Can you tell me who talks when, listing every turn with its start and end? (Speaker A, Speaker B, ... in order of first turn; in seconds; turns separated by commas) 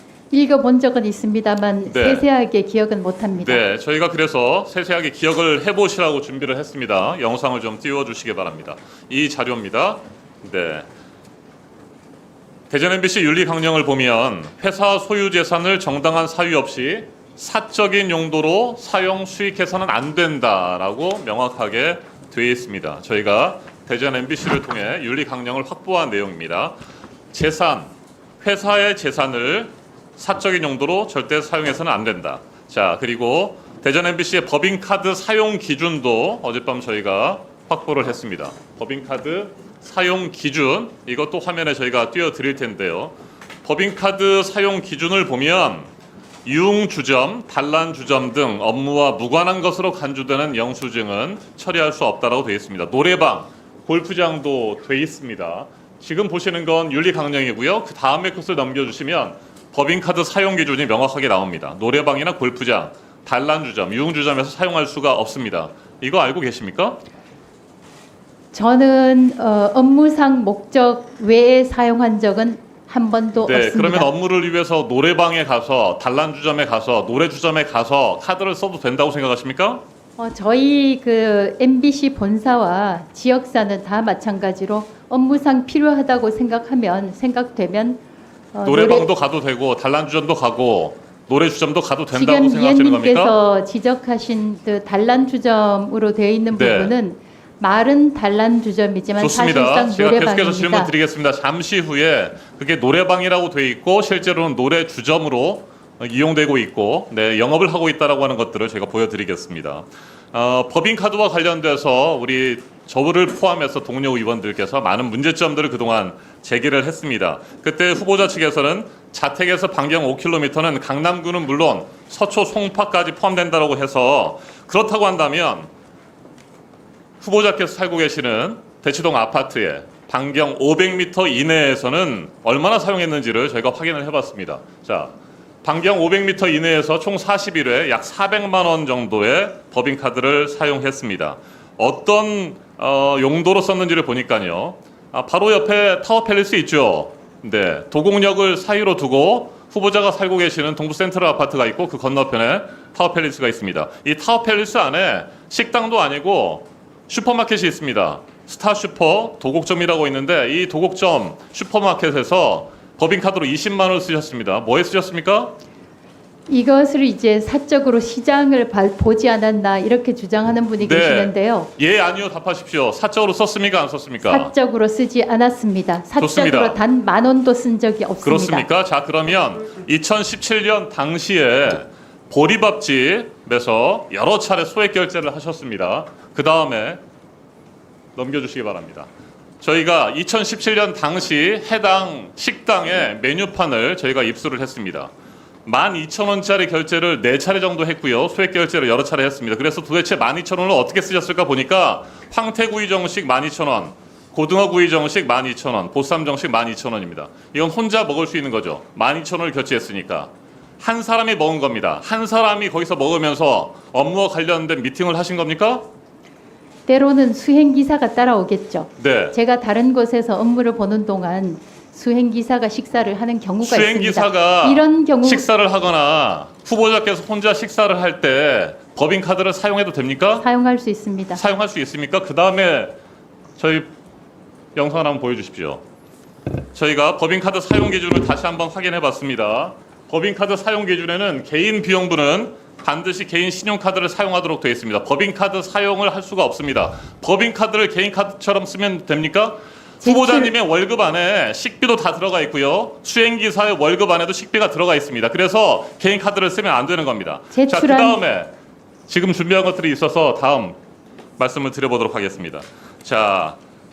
Speaker A: 0.3-3.6, Speaker B: 1.9-2.3, Speaker B: 3.4-10.9, Speaker B: 12.7-26.8, Speaker B: 27.3-45.9, Speaker B: 46.4-67.0, Speaker A: 68.5-74.1, Speaker B: 73.3-79.8, Speaker A: 80.2-89.1, Speaker B: 88.6-93.3, Speaker A: 92.1-100.9, Speaker B: 96.5-96.9, Speaker B: 99.2-125.7, Speaker B: 127.2-165.6, Speaker A: 166.5-171.7, Speaker B: 170.8-174.5, Speaker A: 174.2-178.7, Speaker B: 176.2-176.8, Speaker B: 178.2-187.0, Speaker B: 188.2-189.1, Speaker B: 189.6-195.1, Speaker B: 195.7-215.9, Speaker A: 216.9-225.4, Speaker B: 219.0-219.4, Speaker B: 223.6-230.4, Speaker A: 230.4-231.4, Speaker B: 231.3-232.9, Speaker B: 233.6-233.9, Speaker B: 234.8-235.8, Speaker B: 236.7-258.5, Speaker A: 250.0-250.5, Speaker A: 257.5-258.2, Speaker B: 259.1-260.8, Speaker B: 261.4-263.6